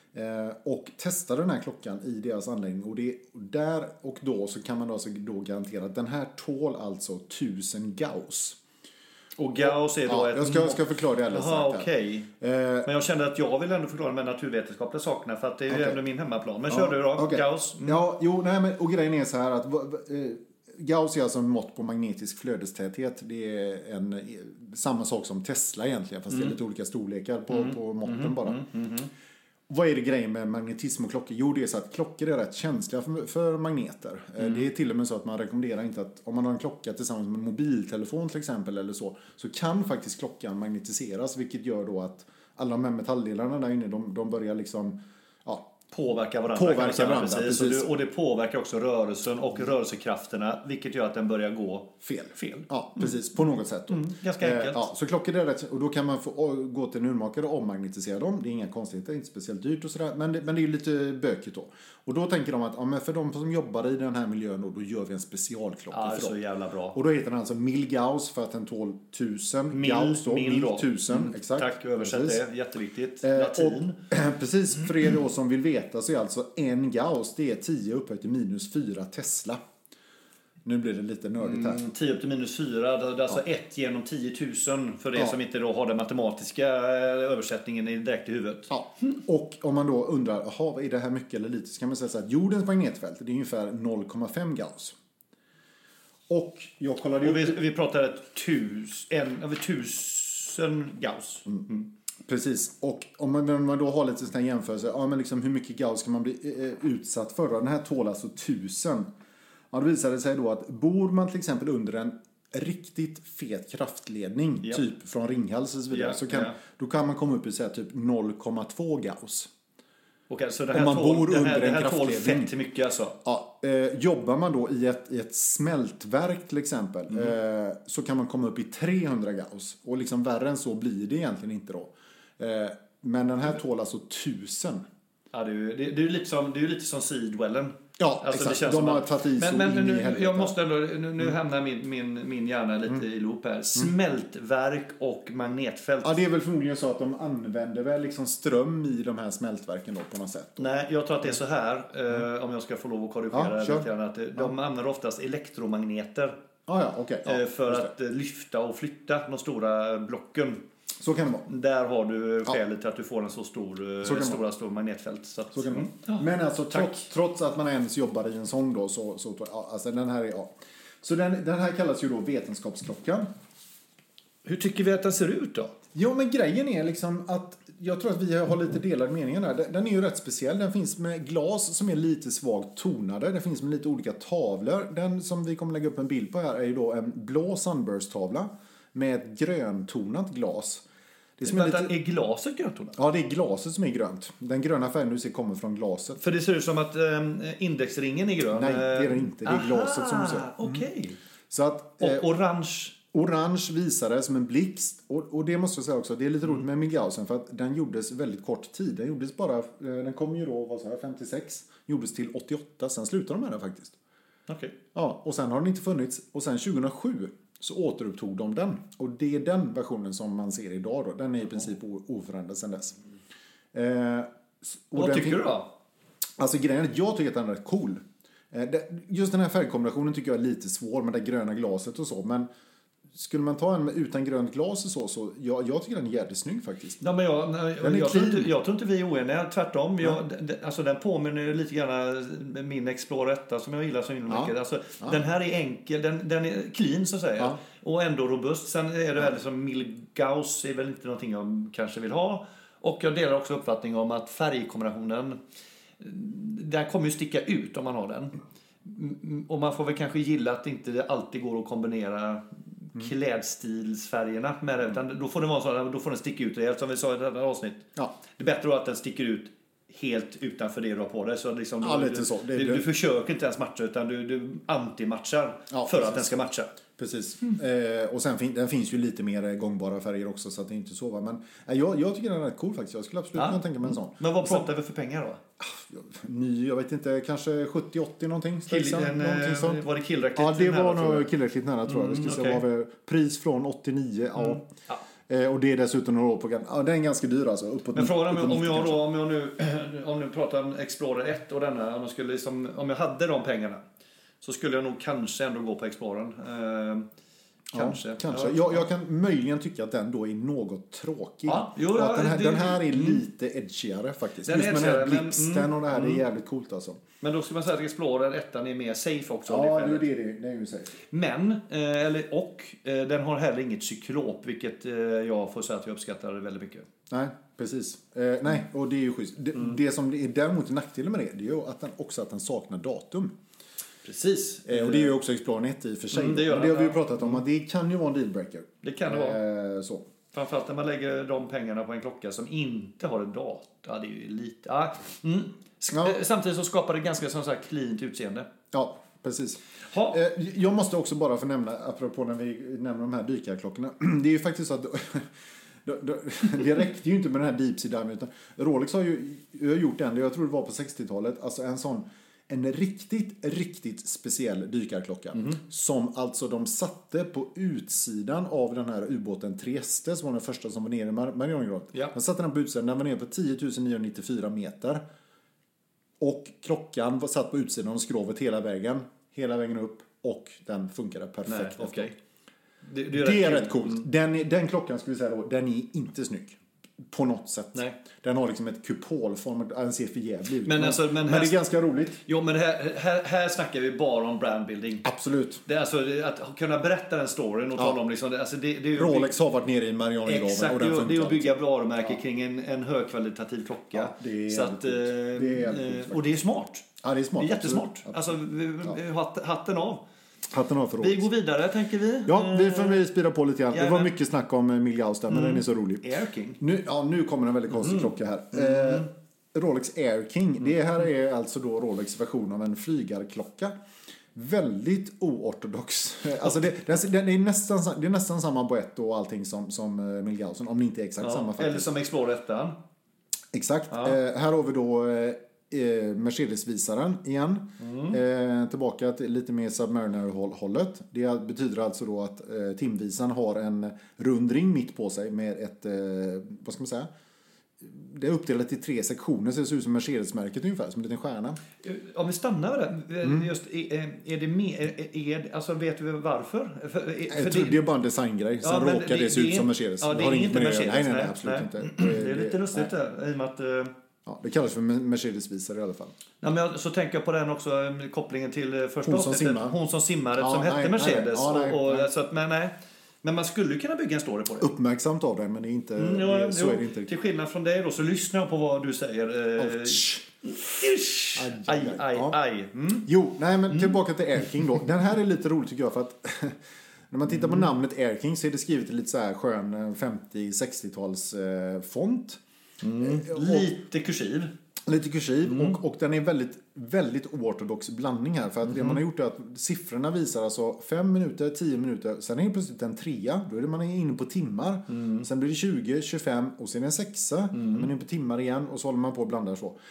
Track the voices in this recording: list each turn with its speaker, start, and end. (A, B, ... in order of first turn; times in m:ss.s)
0:00.1-0:08.6 A
0:09.4-0:12.3 B
0:09.6-0:11.9 A
0:12.4-0:12.9 A
0:12.8-0:18.0 B
0:15.7-0:16.0 A
0:16.7-0:28.6 A
0:27.5-0:29.1 B
0:29.7-0:45.7 A
0:45.9-0:53.1 B
0:46.5-0:47.9 A
0:52.0-1:06.4 A
0:53.9-0:54.9 B
1:05.9-1:07.0 B
1:06.9-1:12.4 A
1:09.7-1:14.0 B
1:13.2-1:19.6 A
1:20.6-1:21.8 A
1:21.4-1:28.7 B
1:28.7-1:35.0 A
1:36.3-1:37.6 A
1:37.2-1:41.9 B
1:42.3-1:49.1 A
1:49.7-1:59.5 A
1:55.9-1:56.6 B
2:00.3-2:03.2 B
2:00.7-2:02.5 A
2:03.2-2:14.8 A
2:15.3-2:26.2 B
2:18.0-2:20.6 A
2:26.0-2:30.7 A
2:30.6-2:36.4 B
2:33.3-2:34.5 A
2:36.7-2:37.9 A
2:37.2-2:40.6 B
2:41.0-2:41.5 A
2:41.5-2:47.0 B
2:44.0-2:44.4 A
2:45.5-2:53.3 A
2:54.4-2:55.8 B
2:55.9-3:10.8 A
3:11.4-3:11.9 A
3:11.4-3:13.0 B
3:12.9-3:16.2 A
3:16.2-3:21.2 B
3:18.5-3:20.9 A
3:21.5-3:22.3 A
3:22.0-3:23.0 B
3:23.1-3:34.0 A
3:34.5-3:34.8 B
3:34.9-3:43.0 A
3:43.7-3:45.5 A
3:45.0-3:45.7 B
3:46.4-3:52.5 A
3:53.1-3:57.0 A
3:57.0-4:15.4 B
3:57.8-3:58.5 A
4:04.3-4:05.2 A
4:16.0-4:36.8 B
4:31.8-4:32.8 A
4:35.7-4:36.3 A
4:37.0-4:44.7 A
4:43.4-4:45.4 B
4:45.6-4:49.8 A
4:48.7-4:51.3 B
4:50.4-4:54.7 A
4:51.9-4:52.6 B
4:54.4-4:55.0 B
4:55.3-4:59.0 A
4:58.0-5:03.8 B
5:04.4-5:07.1 B
5:07.7-5:17.0 A
5:07.7-5:08.8 B
5:11.5-5:13.2 B
5:14.4-5:16.2 B
5:17.2-5:20.1 B
5:19.5-5:20.9 A
5:21.1-5:26.9 B
5:27.1-5:33.3 A
5:34.0-5:35.1 B
5:34.7-5:40.0 A
5:36.1-5:37.4 B
5:38.8-5:39.4 B
5:40.3-5:48.5 B
5:45.9-5:46.2 A
5:48.7-5:55.3 A
5:49.9-5:50.2 B
5:55.8-6:15.0 A
6:05.3-6:05.6 B
6:16.2-6:22.1 A
6:21.5-6:22.1 B
6:22.8-6:24.1 B
6:23.1-6:32.2 A
6:30.6-6:31.6 B
6:32.2-6:35.0 B
6:35.0-6:35.6 A
6:35.7-6:39.3 B
6:39.0-6:41.6 A
6:40.3-6:46.9 B
6:43.9-6:46.2 A
6:47.0-6:48.2 A
6:47.4-6:50.0 B
6:50.5-6:51.3 A
6:51.0-6:53.0 B
6:52.3-6:56.0 A
6:53.7-6:54.1 B
6:55.3-6:56.6 B
6:56.6-7:03.7 A
7:04.4-7:11.9 A
7:11.2-7:12.8 B
7:13.5-7:27.1 A
7:17.8-7:18.2 B
7:27.8-7:31.6 A
7:31.8-7:37.8 B
7:33.2-7:33.5 A
7:37.3-7:42.9 A
7:38.6-7:43.9 B
7:44.2-7:46.1 A
7:46.4-7:54.7 B
7:49.0-7:49.8 A
7:50.4-7:52.1 A
7:54.6-7:57.1 A
7:56.0-8:03.1 B
7:59.6-8:00.2 A
8:01.4-8:02.4 A
8:03.0-8:06.6 A
8:07.1-8:12.4 A
8:12.8-8:14.5 B
8:13.0-8:13.7 A
8:14.9-8:29.8 A
8:15.5-8:15.8 B
8:18.7-8:19.0 B
8:24.9-8:25.2 B
8:27.5-8:27.9 B